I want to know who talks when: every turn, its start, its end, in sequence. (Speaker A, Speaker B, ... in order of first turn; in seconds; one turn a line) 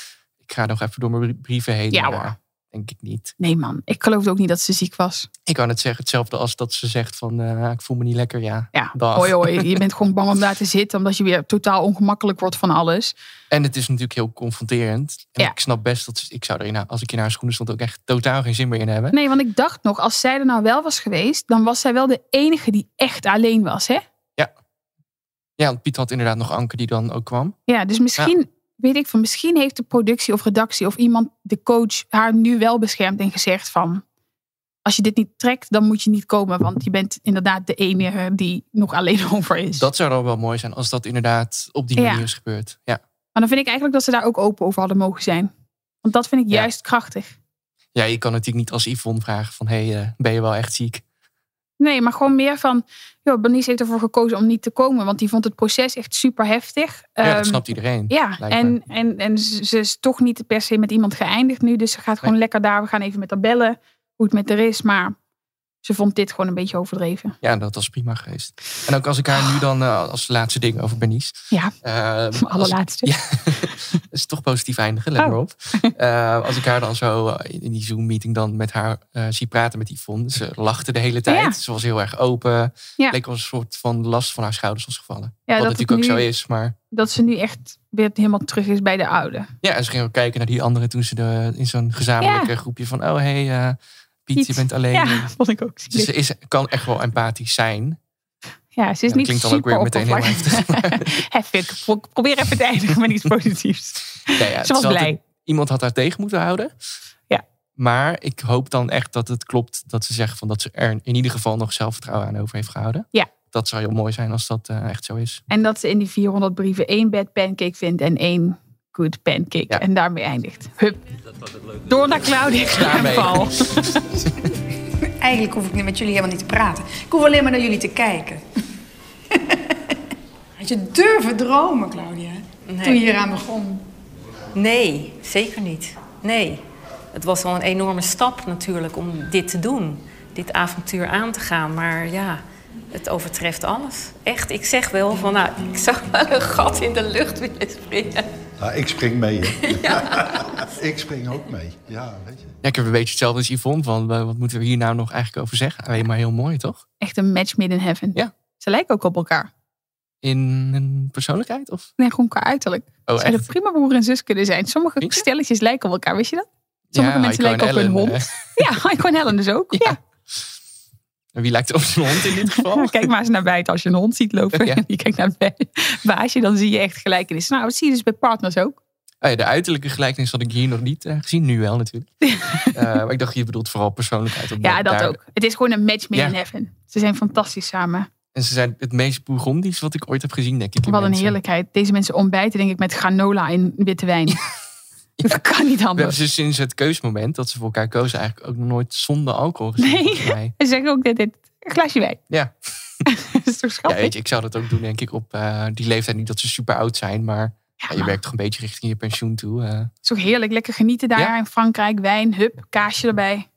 Speaker A: 0.4-3.3
Speaker B: 1.9-2.3
Speaker B: 3.4-5.3
Speaker A: 5.5-9.8
Speaker B: 8.7-13.1
Speaker A: 13.5-19.2
Speaker B: 19.1-24.0
Speaker A: 25.6-27.6
Speaker B: 27.7-34.0
Speaker B: 34.8-39.9
Speaker A: 39.8-43.0
Speaker B: 42.0-42.2
Speaker B: 43.3-45.5
Speaker B: 46.0-47.4
Speaker A: 47.9-51.0
Speaker B: 51.8-65.2
Speaker A: 57.2-58.8
Speaker B: 65.8-67.3
Speaker A: 67.4-86.8
Speaker B: 72.3-73.1
Speaker B: 75.2-75.9
Speaker B: 81.3-81.6
Speaker B: 85.5-86.2
Speaker B: 86.9-89.5
Speaker A: 89.6-95.3
Speaker B: 92.2-92.5
Speaker B: 94.3-96.1
Speaker A: 95.9-98.0
Speaker B: 98.8-105.2
Speaker A: 99.1-101.1
Speaker A: 104.3-106.7
Speaker A: 107.8-115.4
Speaker B: 115.5-121.0
Speaker B: 121.8-124.1
Speaker A: 122.7-124.5
Speaker C: 125.2-128.4
Speaker C: 130.6-133.8
Speaker D: 132.7-133.0
Speaker D: 134.5-148.3
Speaker E: 148.6-152.5
Speaker D: 149.8-150.1
Speaker A: 152.6-156.8
Speaker B: 157.0-159.5
Speaker A: 160.2-161.9
Speaker B: 162.0-170.0
Speaker A: 163.1-163.4
Speaker A: 166.9-168.7
Speaker A: 169.7-170.4
Speaker A: 171.3-173.1
Speaker B: 172.5-178.8
Speaker A: 174.5-174.8
Speaker A: 179.2-182.1
Speaker B: 182.2-182.7
Speaker A: 182.7-185.2
Speaker B: 184.6-188.1
Speaker A: 188.3-191.4
Speaker B: 190.8-194.4
Speaker B: 195.2-196.2
Speaker A: 195.9-200.5
Speaker B: 199.8-202.2
Speaker B: 203.1-204.1
Speaker A: 203.8-209.9
Speaker B: 207.8-208.2
Speaker B: 210.0-213.4